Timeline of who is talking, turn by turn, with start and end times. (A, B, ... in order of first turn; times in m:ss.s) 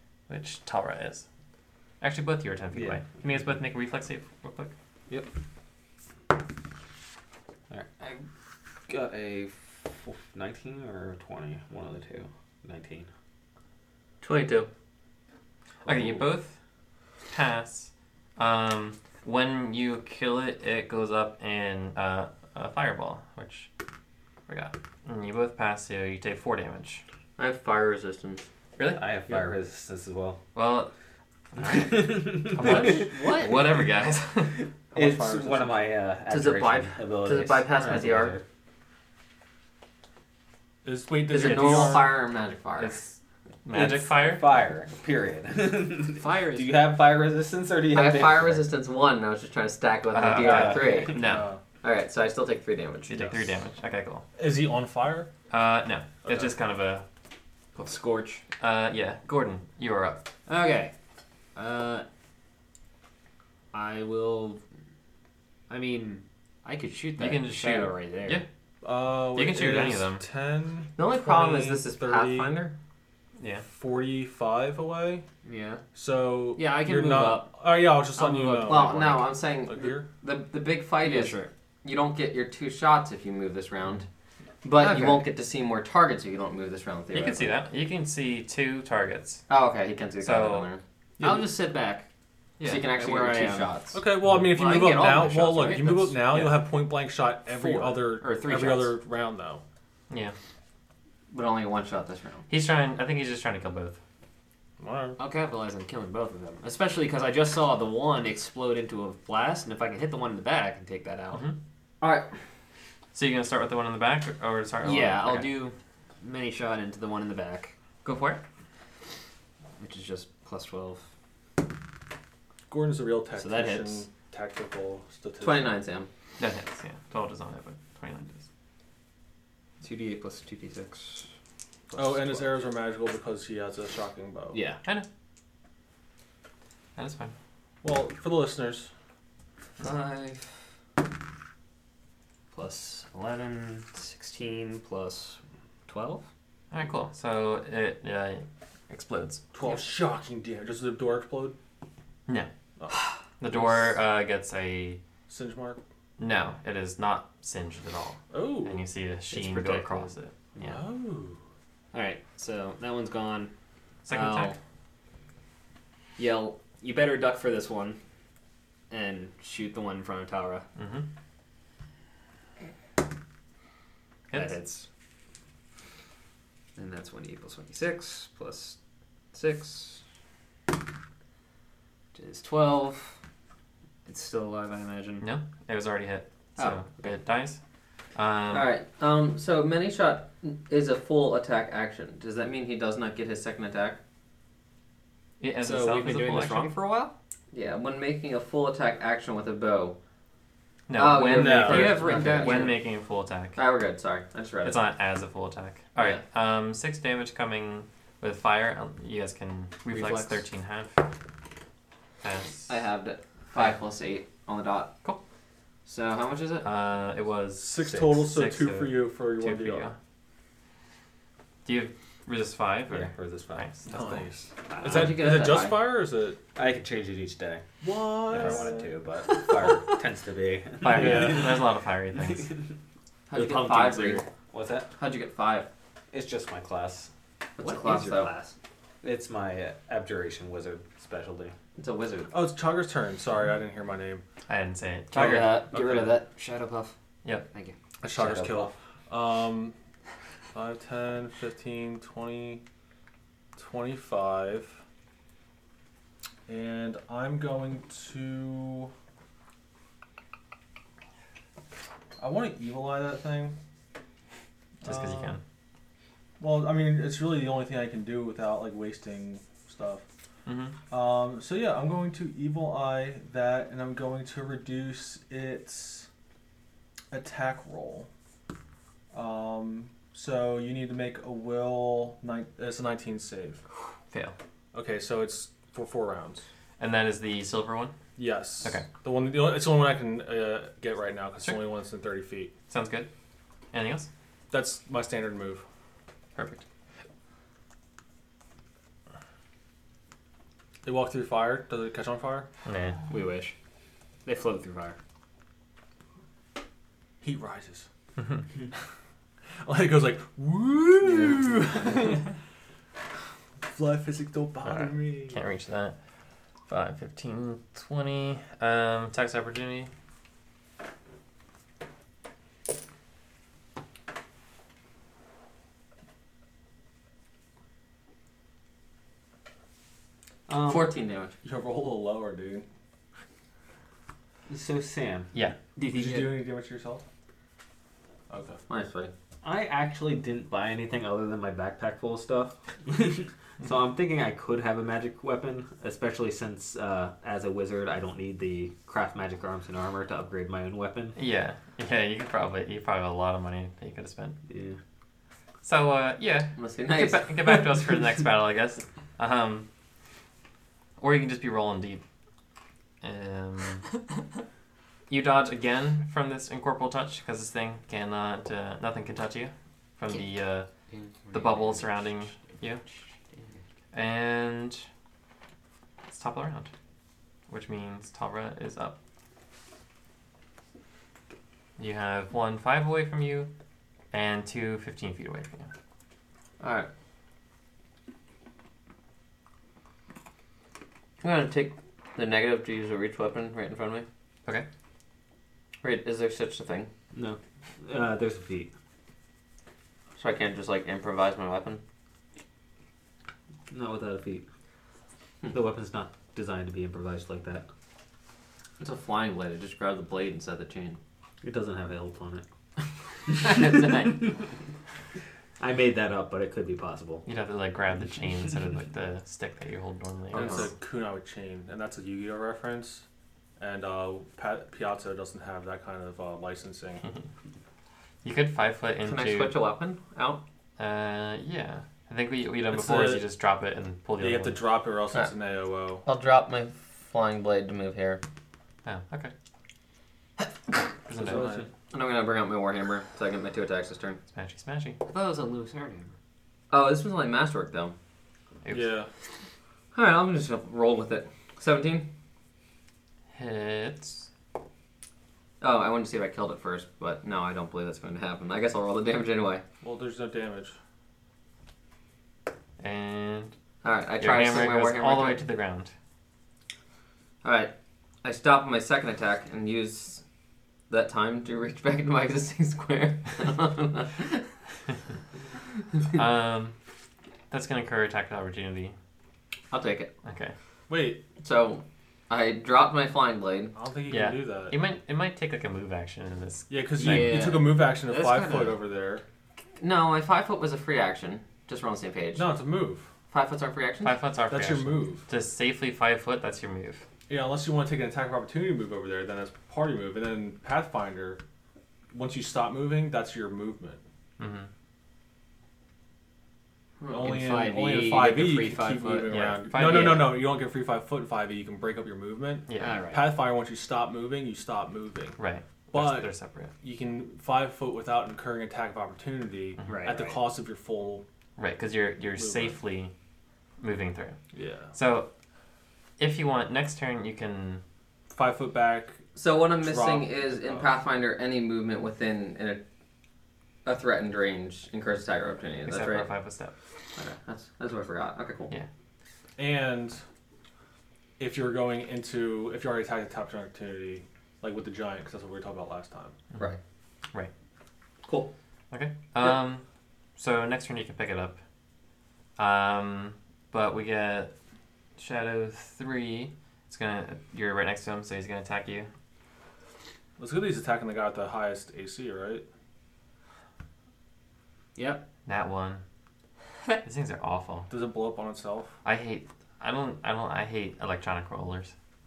0:00.3-0:01.2 A
0:02.0-0:04.7 A
0:02.7-0:03.2 B
0:07.7-0:08.1 B
0:08.9-0:13.1 B
0:14.2-0:14.7 C
0:15.8-0:16.6 A
0:15.9-0:16.2 B
0:17.3-0:23.7 A
0:24.5-0:27.0 A
0:27.4-0:28.4 C
0:28.8-0:29.4 A
0:29.0-0:30.4 B
0:30.5-0:30.9 A
0:31.5-0:34.6 A
0:31.6-0:33.1 B
0:32.6-0:33.5 C
0:34.9-0:38.4 B
0:36.3-0:38.4 C
0:40.8-0:42.1 D
0:41.3-0:43.0 C
0:41.4-0:42.0 A
0:42.8-0:44.5 A
0:43.7-0:48.7 B
0:46.2-0:46.7 E
0:47.9-0:51.2 C
0:50.1-0:51.5 A
0:50.4-0:51.1 B
0:50.6-0:51.6 D
0:51.8-0:53.3 C
0:53.0-0:54.2 A
0:54.4-0:55.3 D
0:55.5-0:57.0 A
0:56.2-0:56.5 D
0:57.8-0:58.4 E
0:58.6-1:00.2 A
1:00.5-1:00.9 E
1:01.5-1:02.0 E
1:03.7-1:04.6 E
1:05.7-1:08.4 E
1:07.2-1:08.4 A
1:08.8-1:12.5 D
1:09.3-1:10.2 A
1:11.0-1:12.7 C
1:13.4-1:13.6 A
1:13.6-1:15.2 D
1:15.4-1:15.8 E
1:15.9-1:20.0 D
1:16.6-1:19.2 E
1:18.6-1:24.0 C
1:21.0-1:21.5 E
1:24.6-1:27.5 C
1:24.8-1:25.2 A
1:27.1-1:29.4 A
1:29.5-1:30.8 C
1:30.2-1:30.7 A
1:31.2-1:31.5 D
1:31.2-1:32.1 E
1:32.6-1:32.8 A
1:32.6-1:34.0 C
1:32.9-1:33.8 E
1:33.9-1:39.6 D
1:34.2-1:34.5 A
1:34.6-1:35.8 C
1:34.6-1:36.6 E
1:37.5-1:39.0 E
1:40.1-1:40.3 A
1:41.3-1:42.5 C
1:42.5-1:44.0 A
1:44.8-1:45.2 D
1:45.2-1:51.4 E
1:51.3-1:51.6 A
1:52.0-1:52.3 C
1:53.1-1:55.5 A
1:54.8-1:57.7 E
1:58.0-1:58.4 A
1:59.8-2:01.1 E
2:02.7-2:05.7 D
2:03.3-2:04.0 E
2:05.4-2:06.1 C
2:06.4-2:08.4 A
2:09.8-2:11.3 E
2:11.9-2:12.6 E
2:11.9-2:14.6 D
2:14.5-2:14.8 E
2:17.0-2:17.3 A
2:17.8-2:18.9 D
2:19.8-2:20.6 E
2:22.5-2:26.2 E
2:26.7-2:29.4 A
2:29.5-2:31.6 D
2:32.8-2:34.0 D
2:33.4-2:35.0 A
2:35.3-2:35.8 D
2:36.2-2:40.8 A
2:38.3-2:38.8 D
2:39.3-2:40.1 E
2:40.6-2:41.4 D
2:41.9-2:43.5 E
2:44.0-2:44.6 A
2:44.1-2:44.6 E
2:46.2-2:48.0 E
2:48.9-2:50.6 E
2:50.8-2:51.0 A
2:54.3-2:54.5 A
2:54.3-2:54.9 E
2:56.8-2:58.8 E
2:59.3-3:00.0 E
3:02.1-3:03.2 E
3:04.0-3:05.3 E
3:05.2-3:07.6 A
3:08.1-3:08.7 A
3:08.5-3:14.0 C
3:15.4-3:16.7 A
3:15.6-3:17.1 E
3:17.5-3:20.0 C
3:20.9-3:23.6 A
3:20.9-3:22.8 C
3:21.3-3:21.9 B
3:21.6-3:22.8 E
3:23.6-3:24.8 C
3:24.6-3:31.0 A
3:29.9-3:30.4 E
3:32.2-3:32.7 A
3:32.7-3:34.9 C
3:35.8-3:36.7 C
3:36.6-3:40.0 A
3:37.6-3:39.9 D
3:37.8-3:38.2 B
3:41.6-3:44.3 A
3:42.9-3:43.7 B
3:43.9-3:46.4 D
3:44.8-3:45.9 C
3:44.9-3:45.2 B
3:46.5-3:47.7 B
3:47.8-3:48.9 D
3:48.2-3:52.7 B
3:49.3-3:50.0 E
3:50.8-3:52.5 A
3:50.9-3:51.6 D
3:53.3-3:54.2 C
3:53.3-3:54.2 E
3:54.5-3:54.9 B
3:55.0-3:55.7 C
3:56.1-3:57.1 B
3:57.6-3:58.3 C
3:57.6-3:58.5 E
3:59.0-4:01.5 B
4:01.8-4:02.3 C
4:02.3-4:04.2 D
4:04.5-4:05.6 A
4:05.1-4:06.9 E
4:05.2-4:06.2 D
4:07.5-4:08.4 E
4:08.0-4:09.7 D
4:10.5-4:12.6 D
4:13.6-4:14.7 D
4:16.5-4:18.9 D
4:22.2-4:23.5 D
4:24.8-4:25.4 D
4:24.8-4:25.4 A
4:26.4-4:30.0 D
4:30.4-4:30.8 A
4:30.9-4:36.1 D
4:37.1-4:38.1 D
4:39.1-4:43.6 D
4:44.1-4:44.4 A
4:44.7-4:46.4 D
4:46.8-4:48.0 A
4:48.2-4:52.5 D
4:52.7-4:53.1 A
4:53.7-4:54.1 A
4:54.5-4:55.6 D
4:56.4-4:56.6 A
5:00.8-5:02.5 D
5:02.6-5:03.0 A
5:03.1-5:03.5 E
5:04.2-5:05.0 E
5:07.2-5:07.9 D
5:08.2-5:08.4 A
5:09.6-5:12.3 D
5:13.7-5:15.4 D
5:14.6-5:16.0 A
5:16.7-5:19.9 A
5:30.5-5:30.9 B
5:30.6-5:31.3 C
5:31.4-5:32.6 D
5:34.5-5:35.3 B
5:35.8-5:36.5 E
5:35.9-5:37.0 D
5:38.3-5:38.6 D
5:38.7-5:39.1 C
5:39.4-5:51.2 B
5:51.1-5:54.4 A
5:54.5-5:54.8 B
5:55.6-5:59.7 A
5:56.5-5:57.7 C
6:01.0-6:02.0 A
6:03.0-6:03.9 A
6:05.1-6:10.7 A
6:10.9-6:12.0 E
6:11.3-6:12.8 A
6:12.8-6:13.4 E
6:13.9-6:14.9 A
6:16.1-6:16.7 A
6:17.5-6:19.0 A
6:21.8-6:23.5 A
6:24.1-6:25.7 A
6:26.6-6:26.9 C
6:31.2-6:34.1 C
6:35.8-6:36.9 C
6:37.1-6:38.7 B
6:40.2-6:41.8 C
6:43.7-6:44.4 B
6:45.5-6:47.6 B
6:48.8-6:51.0 C
6:51.4-6:52.4 B
6:53.3-6:54.1 B
6:53.3-6:54.3 C
6:55.6-6:57.2 B
6:57.2-7:00.7 A
7:00.3-7:03.0 D
7:00.3-7:00.7 C
7:03.6-7:07.0 D
7:08.2-7:09.6 A
7:09.0-7:10.4 C
7:10.8-7:14.6 A
7:12.7-7:13.2 D
7:14.2-7:16.0 D
7:16.0-7:18.2 C
7:18.8-7:19.3 A
7:21.0-7:21.6 A
7:21.2-7:21.7 B
7:21.2-7:21.7 D
7:21.9-7:24.2 C
7:24.3-7:25.0 A
7:25.0-7:26.1 E
7:26.7-7:27.9 C
7:28.6-7:28.9 A
7:28.7-7:29.1 D
7:29.9-7:32.1 C
7:33.3-7:34.3 A
7:35.6-7:39.6 C
7:39.8-7:40.7 D
7:42.8-7:43.5 A
7:43.8-7:45.4 C
7:44.2-7:45.9 A
7:47.4-7:47.7 C
7:48.2-7:50.2 C
7:50.9-7:54.4 C
7:56.1-7:56.8 A
7:57.5-7:59.0 A
7:59.7-8:00.1 C
8:00.2-8:00.5 A
8:00.9-8:01.2 D
8:01.4-8:03.7 C
8:03.7-8:04.7 D
8:04.1-8:07.4 A
8:06.7-8:09.2 D
8:07.0-8:08.8 E
8:09.8-8:12.5 C
8:12.3-8:13.1 D
8:13.3-8:14.2 C
8:14.0-8:17.0 A
8:14.5-8:15.3 D
8:17.3-8:21.4 D
8:22.1-8:24.0 D
8:24.4-8:24.7 A
8:27.0-8:27.3 C
8:27.1-8:35.4 D
8:27.2-8:30.2 E
8:29.3-8:30.4 A
8:32.7-8:33.0 A
8:32.8-8:33.3 E
8:35.4-8:36.7 A
8:35.9-8:41.2 D
8:39.8-8:40.4 E
8:41.6-8:43.1 A
8:42.4-8:42.8 D
8:43.8-8:44.4 A
8:44.5-8:44.9 D
8:44.9-8:45.3 A
8:46.2-8:47.8 A
8:48.3-8:49.2 D
8:49.4-8:52.8 C
8:49.8-8:50.9 D
8:53.8-8:56.3 C
8:55.8-8:56.7 A
8:57.2-8:58.7 C
8:59.6-9:00.2 D
9:01.4-9:06.3 D
9:08.2-9:08.5 C
9:08.9-9:09.8 A
9:10.4-9:11.6 A
9:12.6-9:14.5 A
9:15.2-9:19.1 A
9:20.4-9:22.6 D
9:24.9-9:25.2 E
9:25.4-9:26.0 A
9:27.0-9:27.9 A
9:27.9-9:28.9 D
9:29.0-9:31.9 A